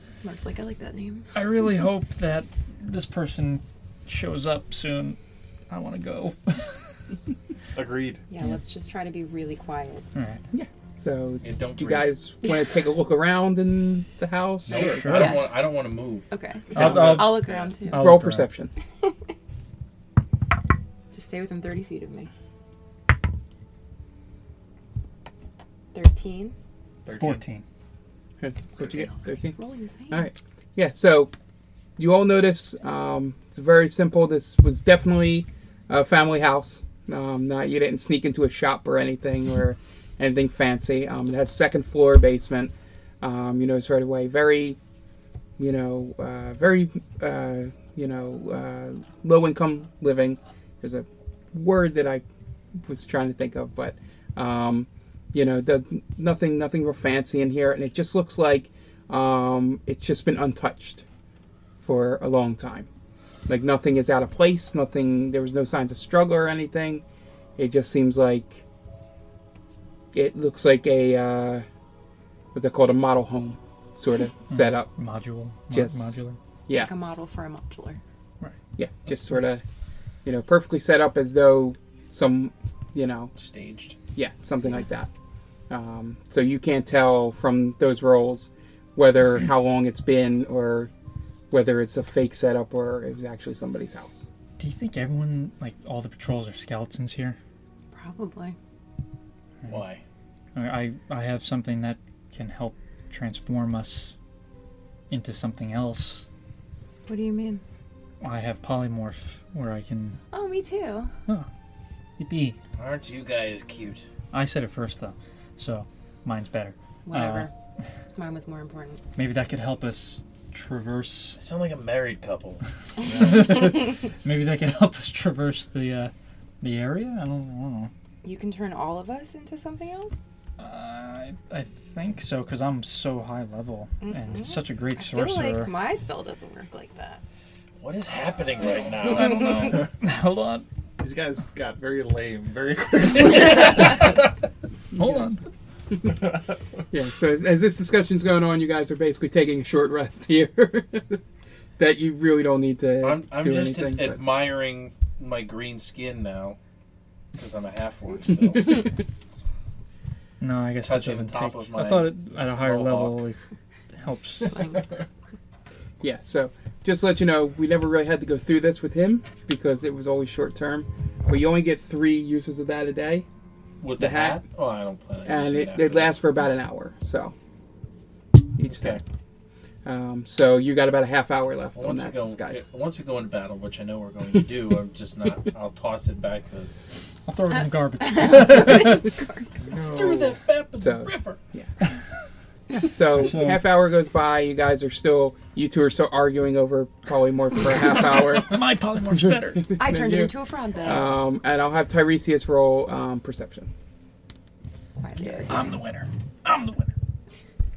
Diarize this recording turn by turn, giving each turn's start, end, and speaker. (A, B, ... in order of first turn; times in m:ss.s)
0:00.2-0:01.3 A
0:01.3-0:05.2 B
0:05.7-0:06.8 B
0:07.7-0:08.2 C
0:08.3-0:10.0 A
0:10.1-0:10.4 B
0:10.5-0:15.2 D
0:11.4-0:12.1 E
0:14.7-0:16.3 E
0:14.7-0:15.4 B
0:15.1-0:15.6 A
0:16.3-0:18.0 A
0:16.7-0:18.5 B
0:16.8-0:17.7 C
0:17.9-0:18.7 D
0:21.1-0:22.3 A
0:25.9-0:26.5 A
0:27.0-0:27.4 C
0:27.2-0:27.6 B
0:28.4-0:29.6 D
0:28.8-0:30.3 A
0:30.1-0:31.3 D
0:32.0-0:44.8 D
0:45.6-0:52.2 D
0:52.8-1:01.0 D
1:01.8-1:02.9 D
1:03.5-1:07.0 D
1:07.6-1:08.6 D
1:10.1-1:11.6 D
1:12.5-1:14.9 D
1:14.5-1:16.4 B
1:15.7-1:16.1 D
1:16.7-1:18.0 A
1:18.8-1:19.6 D
1:20.2-1:23.3 D
1:23.4-1:24.0 E
1:24.1-1:25.1 D
1:25.7-1:30.9 D
1:31.5-1:34.2 D
1:34.6-1:37.4 B
1:37.9-1:38.6 A
1:39.7-1:40.0 E
1:40.5-1:44.1 B
1:45.1-1:46.2 B
1:47.1-1:47.6 A
1:48.2-1:50.2 B
1:50.3-1:51.1 A
1:52.2-1:52.6 B
1:52.8-1:54.0 E
1:54.3-1:57.5 B
1:57.0-1:57.5 A
1:58.2-1:59.0 A
1:59.2-2:01.4 B
2:01.4-2:02.6 E
2:03.0-2:03.5 C
2:03.1-2:07.9 B
2:08.2-2:10.2 A
2:10.6-2:15.7 B
2:14.0-2:17.2 A
2:17.8-2:19.8 E
2:18.8-2:19.2 C
2:19.0-2:20.6 B
2:21.0-2:24.0 C
2:25.0-2:25.3 D
2:25.0-2:25.4 B
2:26.1-2:26.6 C
2:26.9-2:31.2 D
2:31.8-2:34.2 D
2:33.0-2:36.6 E
2:37.3-2:39.0 E
2:40.4-2:43.4 B
2:40.8-2:43.2 E
2:44.0-2:44.7 B
2:44.5-2:44.9 A
2:46.0-2:53.2 D
2:53.8-2:56.2 E
2:54.0-2:54.4 D
2:55.2-2:57.3 D
2:58.6-2:59.0 D
2:58.7-2:59.0 E
2:59.8-3:02.6 D
3:01.8-3:06.7 E
3:07.2-3:09.1 B
3:08.0-3:09.6 A
3:09.6-3:10.4 C
3:09.7-3:11.4 E
3:10.8-3:11.7 D
3:12.7-3:18.6 D
3:13.1-3:13.7 B
3:17.8-3:19.7 B
3:19.5-3:23.7 D
3:19.8-3:21.1 A
3:25.0-3:25.6 A
3:25.5-3:26.8 E
3:25.5-3:25.8 B
3:26.4-3:26.9 B